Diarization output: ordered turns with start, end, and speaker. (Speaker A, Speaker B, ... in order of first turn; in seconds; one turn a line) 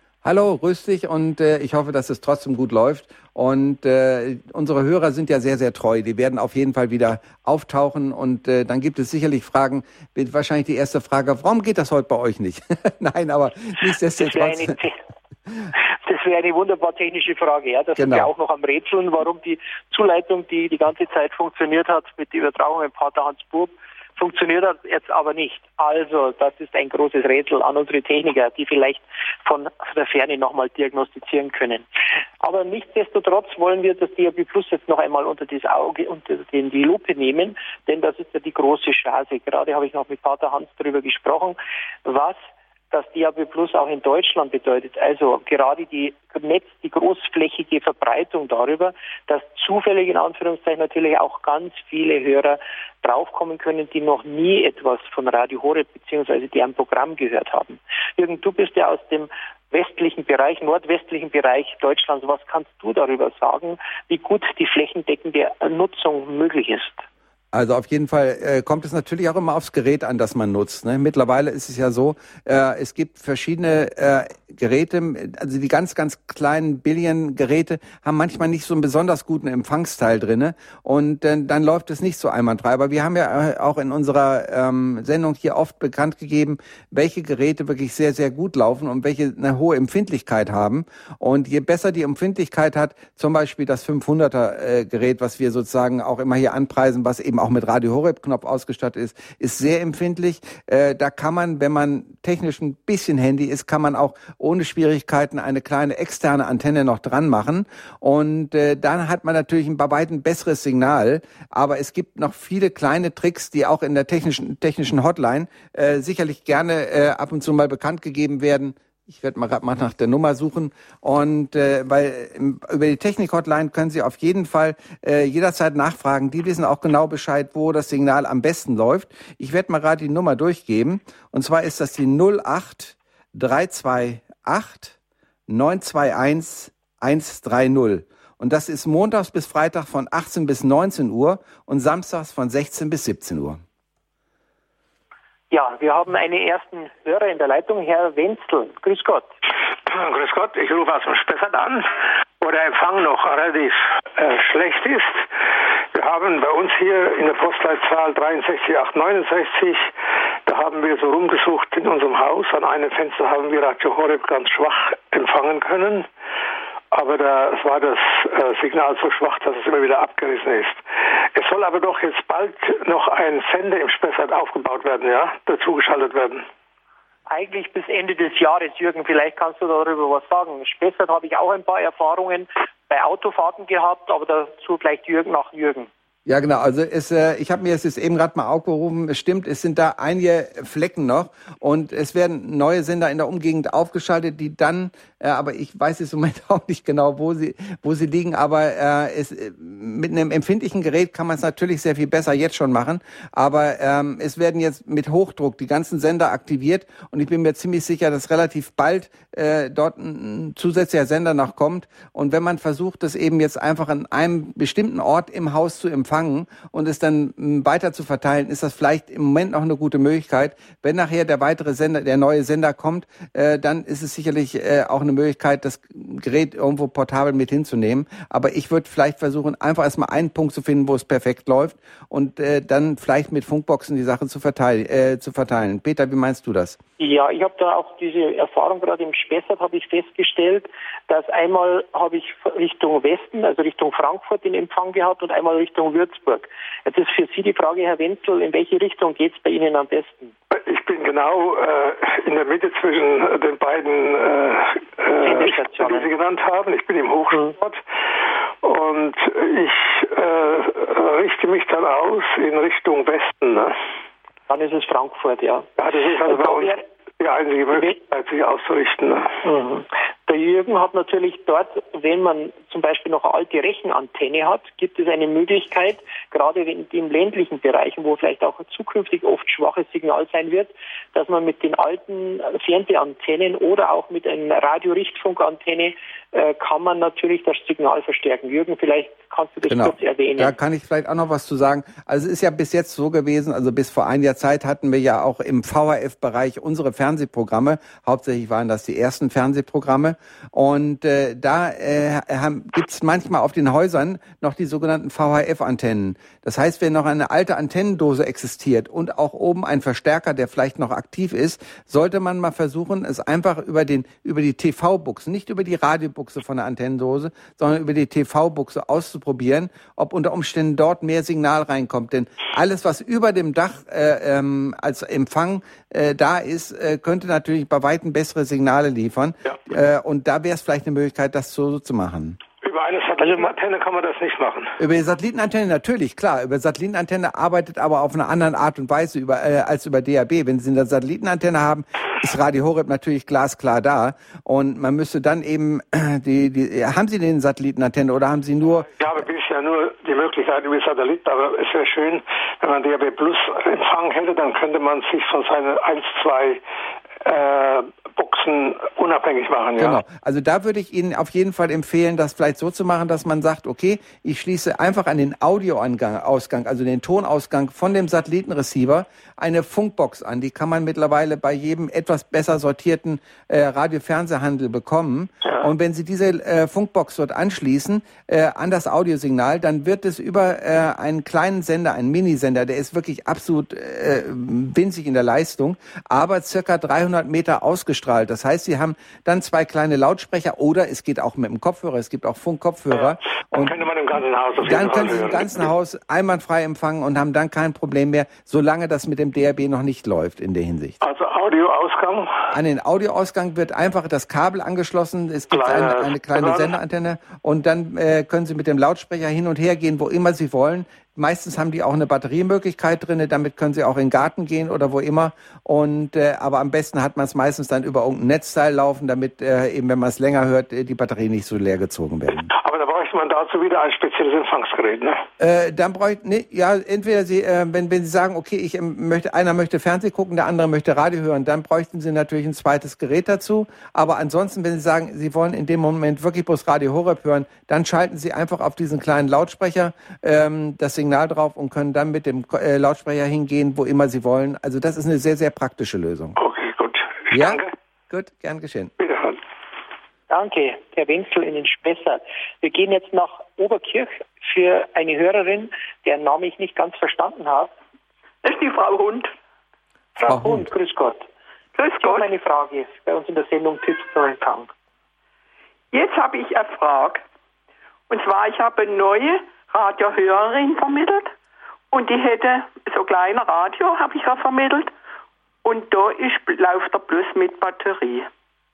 Speaker A: 0.2-14.7
Speaker B: 14.2-15.0
Speaker B: 16.0-31.9
Speaker A: 18.0-18.3
Speaker B: 32.4-42.4
Speaker B: 42.9-67.0
Speaker A: 67.5-135.0
Speaker A: 135.5-143.6
Speaker B: 145.5-149.3
Speaker C: 149.9-155.3
Speaker C: 155.9-159.9
Speaker C: 160.5-166.1
Speaker C: 166.9-170.8
Speaker C: 171.3-176.4
Speaker B: 177.3-185.9
Speaker A: 186.3-236.8
Speaker B: 237.0-250.3
Speaker C: 250.5-257.8
Speaker B: 255.2-256.1
Speaker C: 258.6-263.7
Speaker B: 264.5-266.8
Speaker C: 265.8-269.4
Speaker B: 269.4-290.6
Speaker A: 289.7-332.4
Speaker C: 332.6-334.7
Speaker A: 334.8-349.0
Speaker C: 349.0-356.6
Speaker C: 357.2-360.0
Speaker A: 359.8-393.8
Speaker C: 392.9-395.7
Speaker A: 394.6-401.0
Speaker C: 401.0-402.5
Speaker A: 402.5-422.5
Speaker C: 405.5-406.8
Speaker C: 422.5-425.2
Speaker A: 425.4-446.4
Speaker C: 446.4-447.7
Speaker A: 447.3-448.9
Speaker C: 449.0-449.4
Speaker B: 450.3-457.7
Speaker D: 458.4-459.3
Speaker B: 460.2-461.3
Speaker A: 460.3-460.7
Speaker D: 461.8-462.3
Speaker B: 462.0-464.7
Speaker D: 465.9-467.2
Speaker D: 468.1-471.3
Speaker D: 471.9-474.9
Speaker D: 475.6-478.3